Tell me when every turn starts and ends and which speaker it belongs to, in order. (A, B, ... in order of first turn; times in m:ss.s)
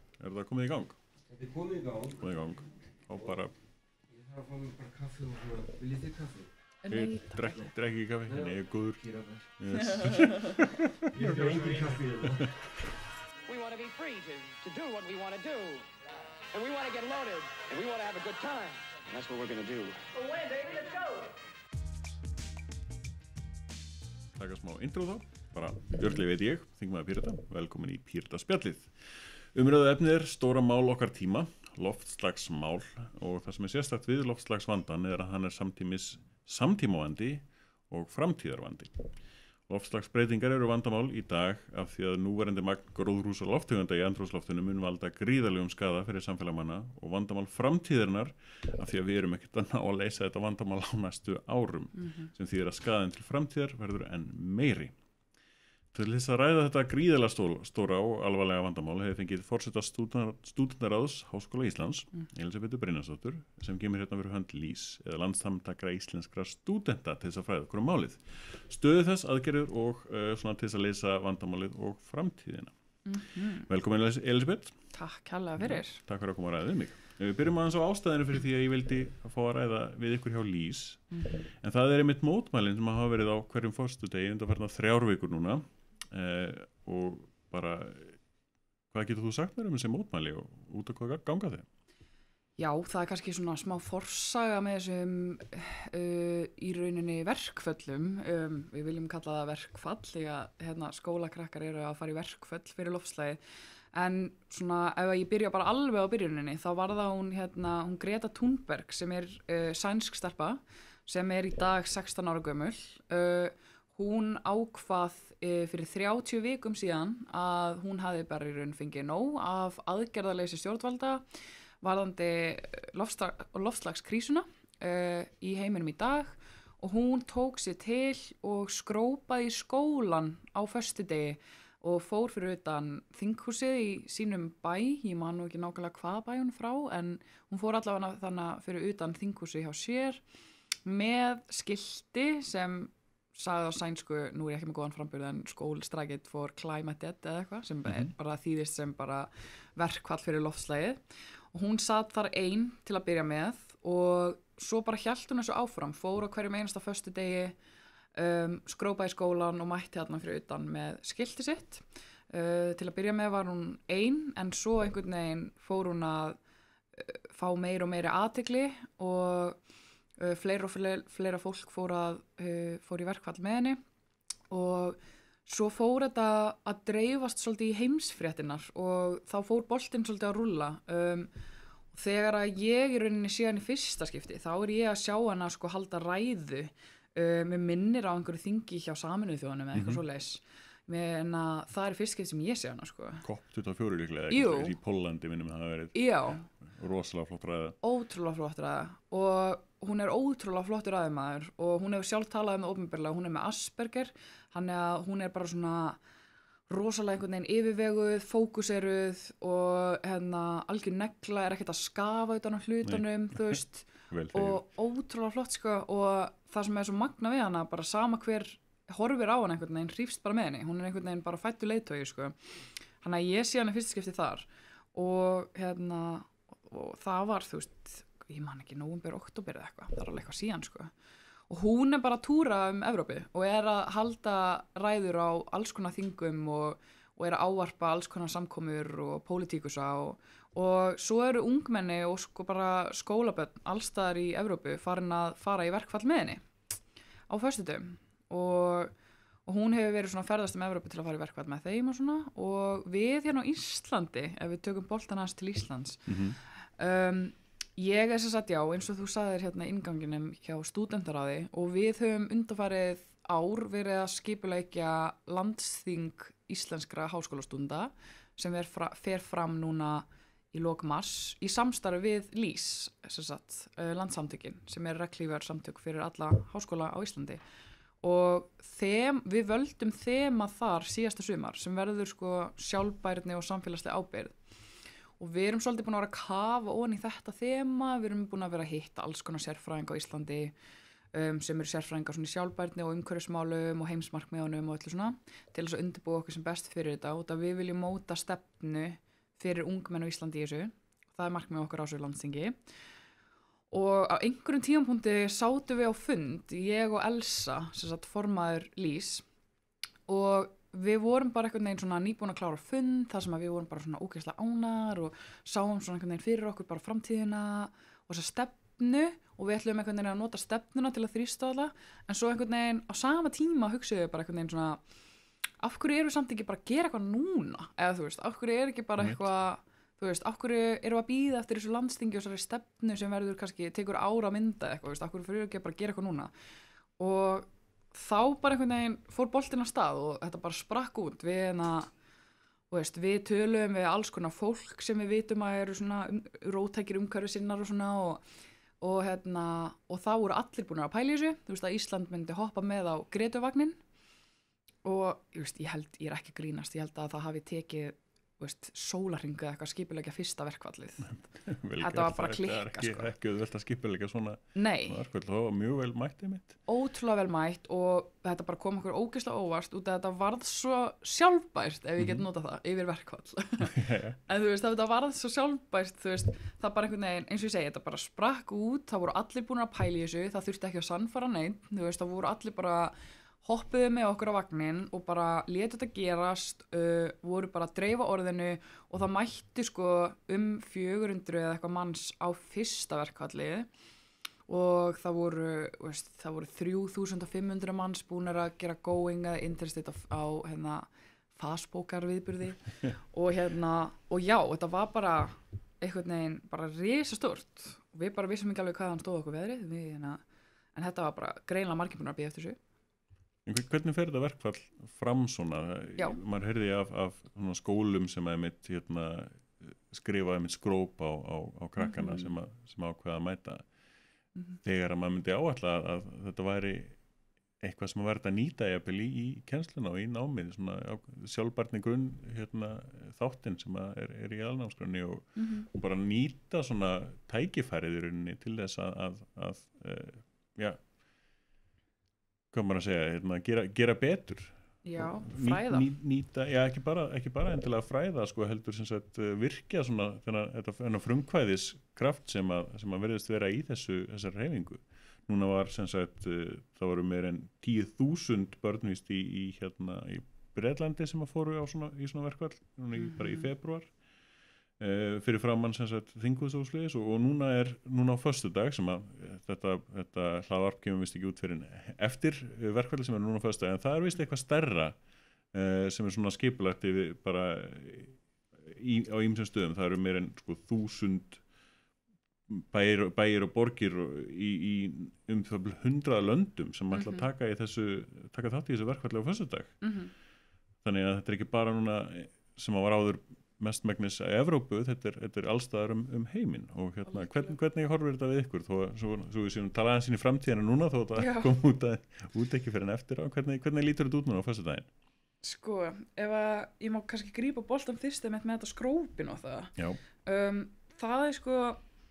0:00.2-0:01.0 A
0:01.3-0:02.3 B
0:02.2-0:03.5 A
0:04.1-0:06.5 B
0:06.8-0:07.6 C
0:06.9-0:09.0 A
0:08.3-0:09.4 B
0:09.6-0:12.7 A
0:10.0-0:10.5 C
0:11.1-0:12.5 B
0:13.5-0:15.9 D
0:16.5-0:21.3 D
0:24.3-0:39.1 A
0:39.7-0:55.0 A
0:52.0-0:52.3 C
0:55.9-1:12.7 A
1:13.0-1:13.7 C
1:13.7-1:14.8 A
1:14.9-1:16.0 C
1:15.6-1:28.2 A
1:21.1-1:21.4 C
1:28.9-1:31.7 A
1:32.6-1:43.4 C
1:43.9-2:01.2 C
2:01.8-2:20.2 C
2:20.9-2:31.0 C
2:27.9-2:28.1 A
2:31.5-2:37.6 C
2:38.2-2:46.4 C
2:47.0-2:49.6 C
2:50.2-2:53.8 C
2:54.5-3:01.3 C
3:01.9-3:13.2 C
3:09.8-3:10.0 A
3:13.2-3:17.8 A
3:14.3-3:14.7 C
3:16.0-3:16.5 C
3:17.8-3:26.0 C
3:26.7-3:42.4 C
3:34.1-3:34.6 A
3:43.0-3:50.9 C
3:51.5-4:06.5 C
4:07.3-4:08.9 C
4:09.5-4:16.2 C
4:16.1-4:16.4 A
4:16.8-4:37.4 C
4:38.0-4:44.4 C
4:45.2-4:50.5 C
4:51.1-5:02.6 C
5:03.7-5:09.2 C
5:10.1-5:24.8 C
5:25.6-5:36.3 C
5:29.0-5:29.2 A
5:37.0-5:41.9 C
5:42.7-5:48.2 C
5:48.8-5:53.8 C
5:54.8-6:01.2 C
6:01.1-6:06.6 A
6:01.8-6:03.1 C
6:04.6-6:05.0 C
6:06.7-6:33.7 C
6:12.0-6:12.2 A
6:13.6-6:14.2 A
6:34.5-6:50.2 C
6:50.8-6:52.6 C
6:53.5-7:03.6 A
7:01.8-7:02.3 C
7:04.6-7:07.0 A
7:07.6-7:20.8 A
7:15.4-7:15.7 C
7:22.5-7:43.9 A
7:24.8-7:25.9 C
7:43.0-7:43.5 C
7:44.8-7:55.0 A
7:55.5-8:01.4 A
8:02.5-8:09.8 A
8:06.9-8:07.2 C
8:09.8-8:10.1 C
8:10.8-8:24.9 A
8:17.1-8:17.5 C
8:21.2-8:21.5 C
8:25.4-8:29.7 C
8:30.2-8:31.8 C